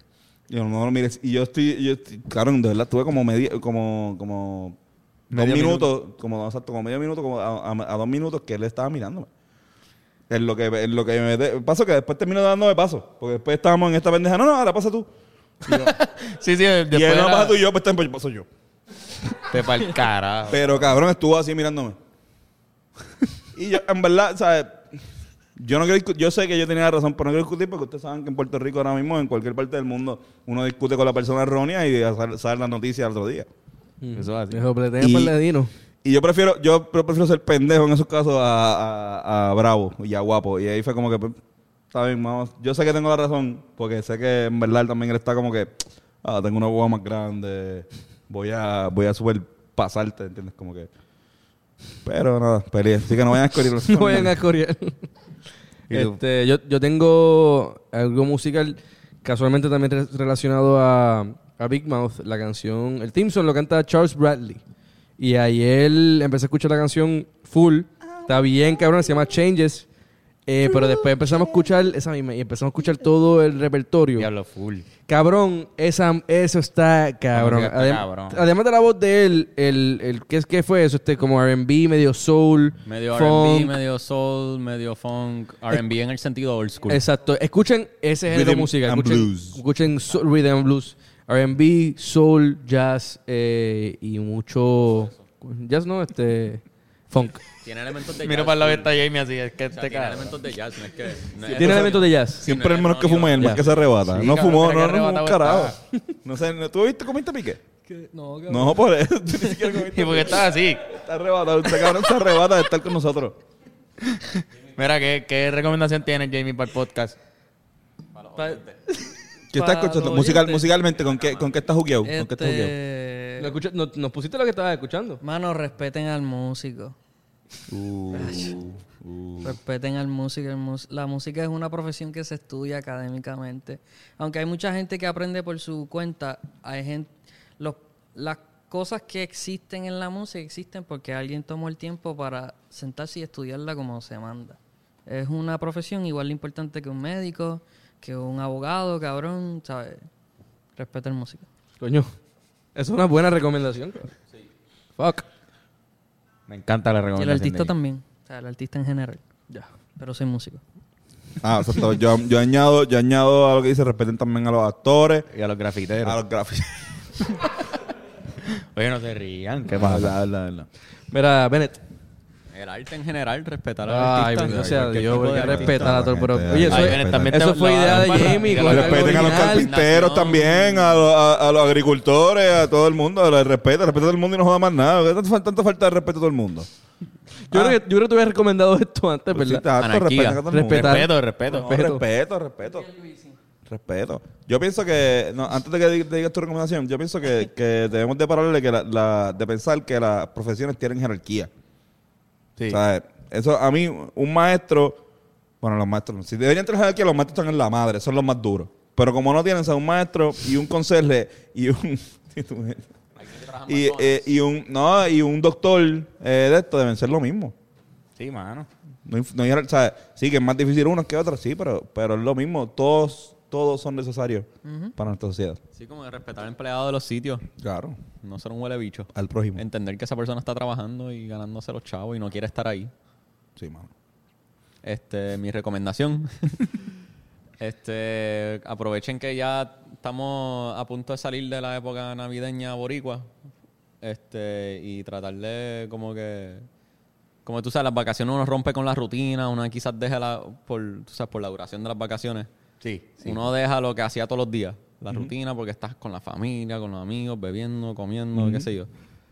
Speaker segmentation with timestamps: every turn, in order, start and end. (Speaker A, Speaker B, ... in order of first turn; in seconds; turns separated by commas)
Speaker A: 0.5-4.8, Speaker A: 5.3-9.3, Speaker B: 5.3-5.9, Speaker A: 10.3-15.1, Speaker C: 15.7-17.5, Speaker A: 16.9-18.5, Speaker C: 19.5-20.9, Speaker A: 20.5-22.0, Speaker A: 23.5-24.9, Speaker A: 25.6-33.5, Speaker B: 34.0-35.7, Speaker C: 34.1-34.6, Speaker A: 35.0-35.4, Speaker A: 36.0-41.4, Speaker A: 41.9-50.9, Speaker A: 52.0-54.4, Speaker B: 53.8-55.0, Speaker B: 55.9-64.6, Speaker B: 65.2-69.8, Speaker B: 70.5-74.3, Speaker C: 74.2-74.9, Speaker B: 75.1-83.8, Speaker C: 77.3-78.5, Speaker D: 82.8-87.0, Speaker B: 86.9-97.4, Speaker A: 88.3-89.6, Speaker D: 97.6-99.0, Speaker C: 98.2-100.3, Speaker D: 99.7-103.8, Speaker B: 101.5-102.5, Speaker A: 101.5-107.6, Speaker C: 104.1-105.8, Speaker E: 107.8-109.8, Speaker A: 108.5-113.4, Speaker C: 109.9-110.8, Speaker C: 114.0-117.2, Speaker D: 118.2-118.7, Speaker E: 118.3-118.6, Speaker A: 119.5-122.7, Speaker E: 119.5-120.7, Speaker E: 122.0-123.6, Speaker B: 123.4-125.2, Speaker E: 125.2-127.0, Speaker A: 127.7-129.5, Speaker E: 128.1-128.6, Speaker E: 129.4-150.1, Speaker E: 150.8-151.5, Speaker B: 151.8-152.1, Speaker B: 152.7-154.1, Speaker B: 155.0-155.2, Speaker C: 156.5-157.7, Speaker E: 157.2-159.2, Speaker E: 160.0-160.6, Speaker A: 161.4-165.3, Speaker C: 165.3-166.2, Speaker A: 166.0-166.9, Speaker C: 168.5-170.1, Speaker A: 169.7-170.7, Speaker B: 171.1-171.8, Speaker D: 172.5-176.0, Speaker B: 173.8-179.7, Speaker A: 174.5-186.7, Speaker C: 176.6-179.4, Speaker D: 178.5-181.1, Speaker B: 187.5-189.6, Speaker A: 187.5-187.8, Speaker A: 189.3-192.9, Speaker D: 189.8-190.4, Speaker B: 190.4-192.0, Speaker C: 190.7-191.7, Speaker E: 192.6-193.3, Speaker A: 193.7-201.5, Speaker A: 202.7-205.0, Speaker A: 205.6-212.9, Speaker D: 213.2-214.2, Speaker A: 213.7-217.5, Speaker C: 218.2-218.7, Speaker A: 219.1-225.6, Speaker E: 224.6-224.9, Speaker D: 225.7-227.4, Speaker A: 227.6-228.0, Speaker D: 228.2-232.9, Speaker A: 229.1-229.6, Speaker A: 233.6-233.9, Speaker D: 234.8-236.7, Speaker D: 237.6-243.3, Speaker D: 244.0-246.7, Speaker D: 247.4-252.5, Speaker C: 252.8-253.4, Speaker D: 253.2-258.9, Speaker A: 258.4-258.7